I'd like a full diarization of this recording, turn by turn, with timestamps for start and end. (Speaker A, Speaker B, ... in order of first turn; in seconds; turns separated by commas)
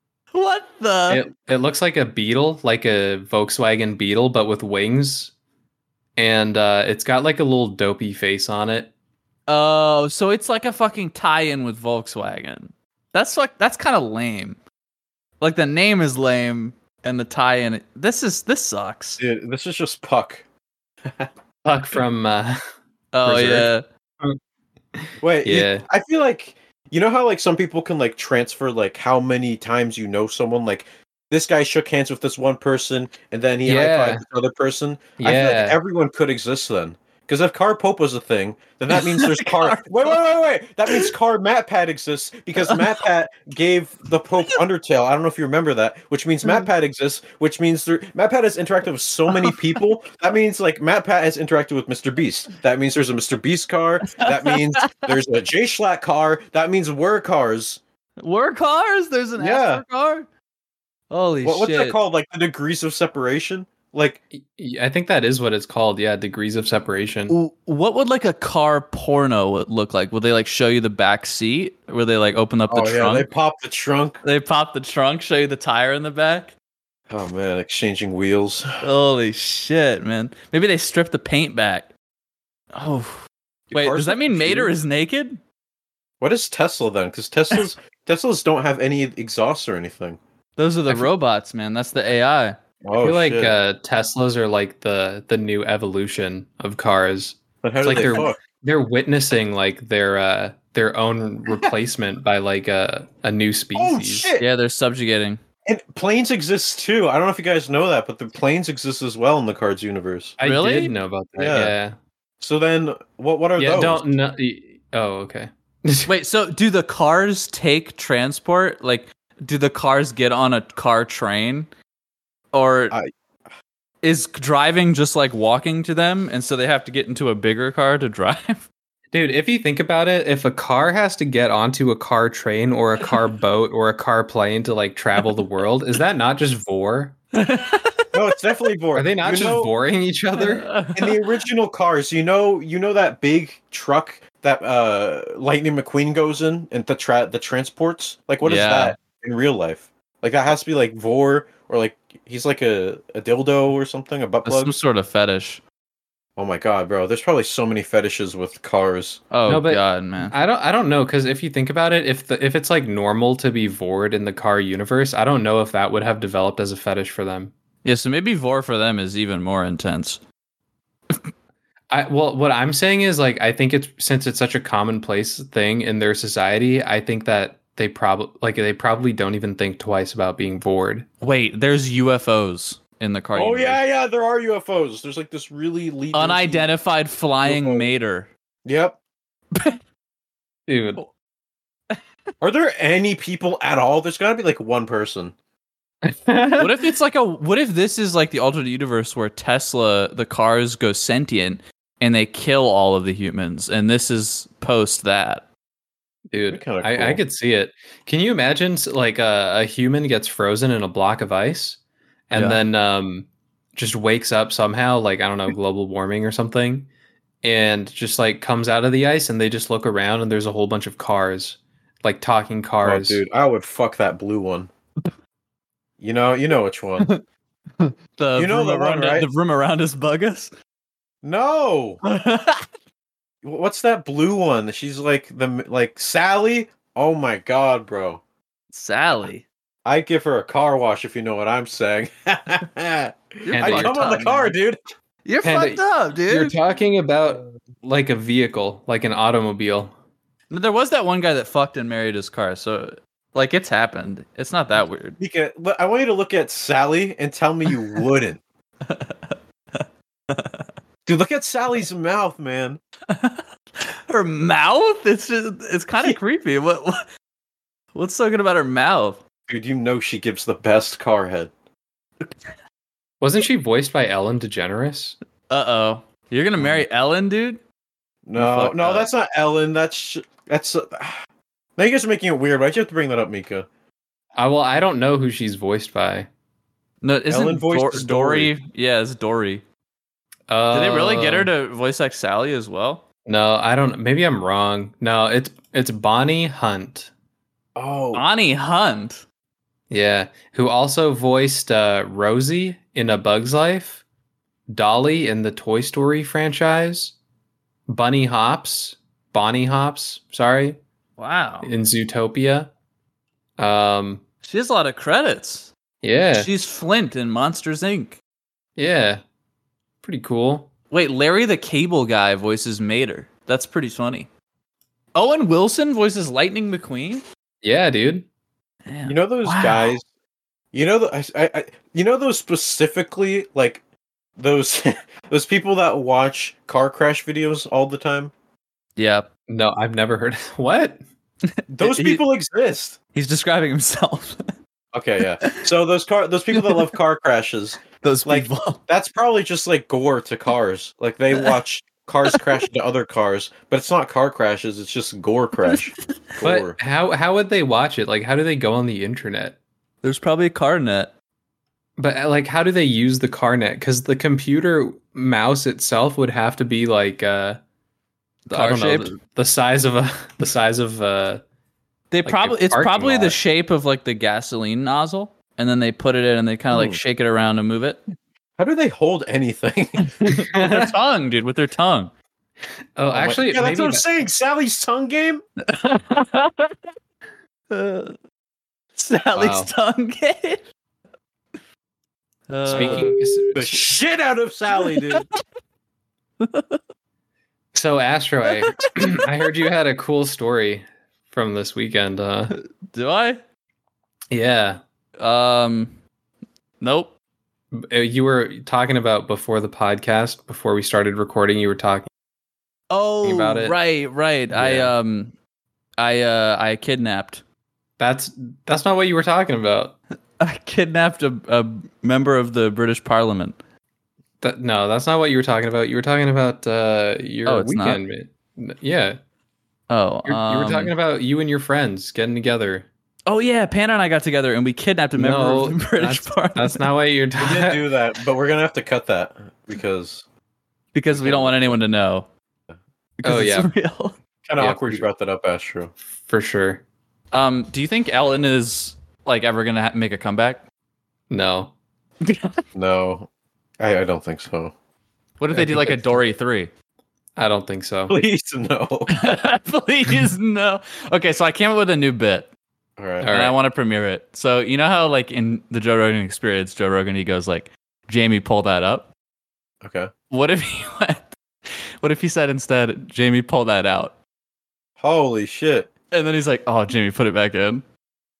Speaker A: 0.3-1.2, Speaker B: 1.1-5.3, Speaker B: 6.2-8.9, Speaker A: 9.5-14.6, Speaker A: 15.4-19.2, Speaker C: 19.2-20.4, Speaker B: 21.6-22.6, Speaker A: 23.1-23.8, Speaker B: 23.2-23.7, Speaker B: 24.9-25.8, Speaker C: 25.2-57.8, Speaker B: 33.6-34.2, Speaker B: 35.2-35.8, Speaker A: 38.9-40.2, Speaker A: 54.1-55.1, Speaker A: 58.2-60.3, Speaker C: 59.4-59.8, Speaker A: 61.1-62.0, Speaker C: 61.4-64.2, Speaker B: 64.3-67.3, Speaker A: 67.3-73.3, Speaker C: 72.7-74.2, Speaker A: 74.2-76.5, Speaker C: 77.1-78.7, Speaker A: 78.8-81.9, Speaker A: 82.7-85.4, Speaker C: 83.7-84.7, Speaker C: 86.2-90.2, Speaker A: 90.6-92.6, Speaker C: 92.8-93.5, Speaker B: 93.0-104.3, Speaker C: 97.6-98.4, Speaker C: 103.7-104.5, Speaker A: 104.4-105.4, Speaker C: 105.7-110.4, Speaker B: 110.4-111.9, Speaker A: 110.4-110.9, Speaker C: 111.3-111.7, Speaker C: 112.4-114.0, Speaker B: 113.6-116.1, Speaker A: 116.1-121.7, Speaker A: 122.5-123.0, Speaker A: 124.0-128.7, Speaker B: 129.1-137.2, Speaker A: 137.3-138.3, Speaker C: 138.1-139.7, Speaker B: 138.9-140.7, Speaker A: 140.4-141.4, Speaker C: 140.9-154.7, Speaker A: 148.4-148.9, Speaker A: 154.4-155.6, Speaker C: 156.3-159.2, Speaker A: 159.3-160.3, Speaker B: 159.5-167.5, Speaker A: 167.8-170.2, Speaker B: 171.9-181.1, Speaker A: 181.2-183.8, Speaker C: 183.3-186.7, Speaker A: 186.1-188.3, Speaker C: 187.4-187.9, Speaker C: 188.6-189.0, Speaker A: 189.5-189.8, Speaker B: 190.7-191.0, Speaker C: 192.4-195.3, Speaker B: 196.0-196.7, Speaker A: 196.6-205.4, Speaker B: 206.3-216.9, Speaker C: 206.5-207.2, Speaker A: 212.3-212.6, Speaker B: 217.4-223.2, Speaker C: 222.8-224.7, Speaker C: 226.0-227.1, Speaker A: 227.8-230.5, Speaker C: 228.3-229.3, Speaker C: 231.2-232.0, Speaker A: 232.1-232.7, Speaker C: 233.4-238.2, Speaker A: 238.7-239.4, Speaker C: 239.8-244.8, Speaker A: 243.4-244.5, Speaker B: 243.5-244.1, Speaker A: 245.2-246.6, Speaker B: 245.4-249.9, Speaker A: 250.5-255.2, Speaker C: 255.2-258.4, Speaker A: 258.8-260.7, Speaker C: 261.1-262.8, Speaker A: 263.1-267.0, Speaker A: 267.9-269.2, Speaker C: 269.5-271.5, Speaker B: 273.2-275.1, Speaker A: 275.5-277.6, Speaker C: 278.2-281.2, Speaker A: 278.4-279.1, Speaker C: 281.8-283.7, Speaker B: 284.4-286.3, Speaker A: 287.0-289.6, Speaker C: 287.3-288.5, Speaker B: 290.5-291.5, Speaker A: 290.7-293.0, Speaker B: 293.3-297.1, Speaker C: 297.8-298.2, Speaker A: 298.1-299.2, Speaker B: 299.9-304.0, Speaker B: 304.7-307.1, Speaker B: 307.9-310.8, Speaker A: 311.2-311.7, Speaker B: 311.6-312.7, Speaker B: 313.6-314.2, Speaker A: 314.4-315.7, Speaker B: 316.0-316.5, Speaker A: 316.3-318.2, Speaker B: 318.8-319.2, Speaker B: 320.0-320.7, Speaker A: 320.9-324.3, Speaker A: 325.1-327.2, Speaker B: 327.6-328.3, Speaker A: 328.9-329.9, Speaker C: 329.1-330.0, Speaker C: 330.7-333.8, Speaker C: 334.4-338.3, Speaker A: 339.0-339.3, Speaker B: 339.5-341.0, Speaker C: 341.7-343.0, Speaker A: 341.8-342.2, Speaker A: 343.1-344.4, Speaker C: 344.9-356.8, Speaker A: 345.4-345.7, Speaker A: 346.5-346.8, Speaker A: 348.0-348.8, Speaker B: 356.4-359.6, Speaker A: 360.0-361.1, Speaker B: 362.0-367.6, Speaker A: 368.5-369.1, Speaker B: 368.5-371.4, Speaker A: 372.1-378.0, Speaker B: 372.2-373.4, Speaker C: 376.7-377.0, Speaker C: 378.6-380.1, Speaker A: 380.0-382.1, Speaker B: 380.2-380.9, Speaker B: 383.0-384.0, Speaker C: 383.1-385.4, Speaker A: 385.6-386.7, Speaker A: 387.7-388.2, Speaker A: 388.9-390.6, Speaker B: 389.3-389.7, Speaker A: 392.5-393.6, Speaker B: 392.6-393.9, Speaker C: 392.7-395.3, Speaker A: 394.8-395.2, Speaker A: 396.4-396.8, Speaker B: 397.7-402.5, Speaker A: 398.5-399.2, Speaker A: 402.5-403.4, Speaker B: 404.3-404.8, Speaker A: 405.2-406.0, Speaker A: 406.8-407.1, Speaker B: 407.7-412.1, Speaker A: 412.9-415.3, Speaker B: 413.2-413.7, Speaker B: 414.5-414.9, Speaker A: 416.0-417.4, Speaker B: 418.0-420.0, Speaker A: 420.4-423.6, Speaker B: 424.4-429.2, Speaker A: 427.4-428.0, Speaker A: 429.9-430.9, Speaker B: 430.2-432.9, Speaker A: 433.3-436.9, Speaker B: 435.1-437.8, Speaker C: 437.4-440.2, Speaker A: 440.9-442.3, Speaker C: 441.1-441.8, Speaker A: 443.2-444.1, Speaker B: 443.2-443.7, Speaker C: 444.4-445.9, Speaker B: 444.6-445.1, Speaker B: 446.2-446.8, Speaker A: 447.3-450.6, Speaker B: 451.3-451.7, Speaker A: 452.2-452.6, Speaker C: 452.7-453.3, Speaker C: 453.8-454.7, Speaker A: 455.4-456.7, Speaker B: 455.5-455.9, Speaker B: 457.4-458.1, Speaker C: 458.1-459.2, Speaker A: 459.1-462.5, Speaker C: 463.0-463.3, Speaker B: 463.2-463.5, Speaker A: 463.3-469.1, Speaker C: 469.8-470.1, Speaker A: 470.3-474.1, Speaker C: 475.0-475.9, Speaker A: 476.1-477.8